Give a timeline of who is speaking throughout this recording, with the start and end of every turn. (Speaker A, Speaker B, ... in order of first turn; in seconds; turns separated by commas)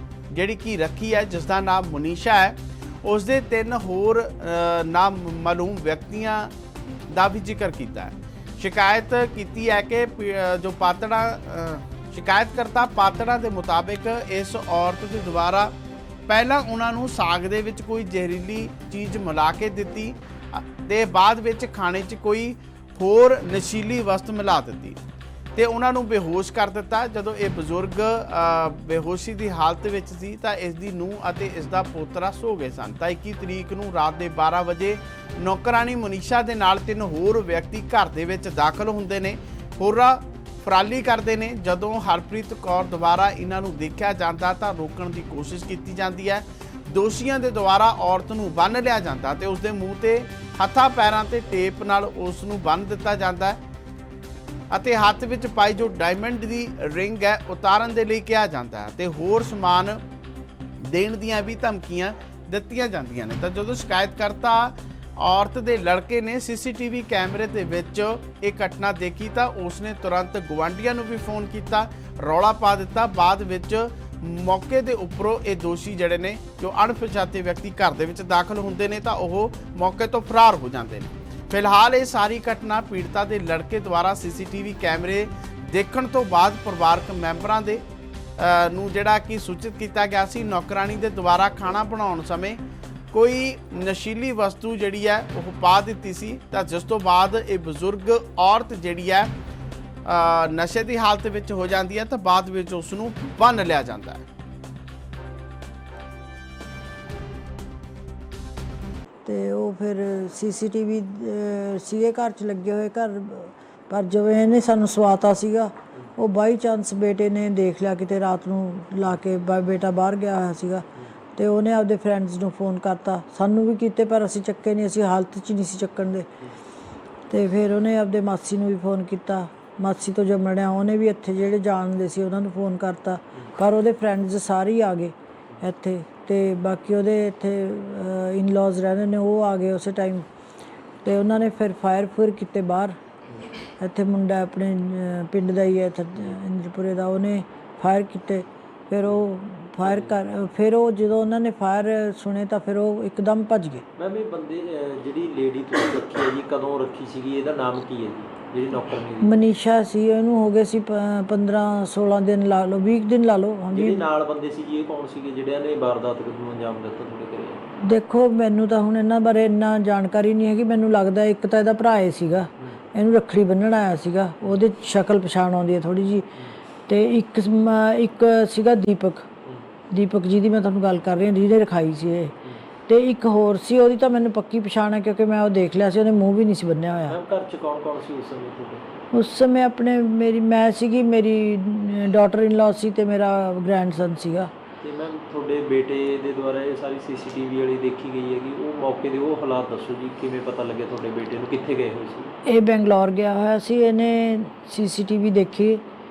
Speaker A: 0.3-6.5, Speaker A: 7.1-15.7, Speaker A: 16.3-25.0, Speaker A: 25.6-53.6, Speaker A: 54.7-60.0, Speaker A: 60.8-87.8, Speaker A: 88.4-92.6, Speaker A: 93.1-99.3, Speaker A: 100.0-104.2, Speaker B: 109.2-126.3, Speaker B: 127.3-140.2, Speaker B: 141.0-143.0, Speaker B: 143.8-153.8, Speaker C: 149.8-150.2, Speaker C: 154.0-159.4, Speaker B: 159.2-164.1, Speaker C: 163.7-167.6, Speaker B: 167.8-176.3, Speaker B: 176.9-179.3, Speaker B: 179.9-182.3, Speaker B: 182.9-187.2, Speaker C: 187.1-188.9, Speaker B: 189.1-194.5, Speaker C: 194.8-202.3, Speaker B: 202.4-205.8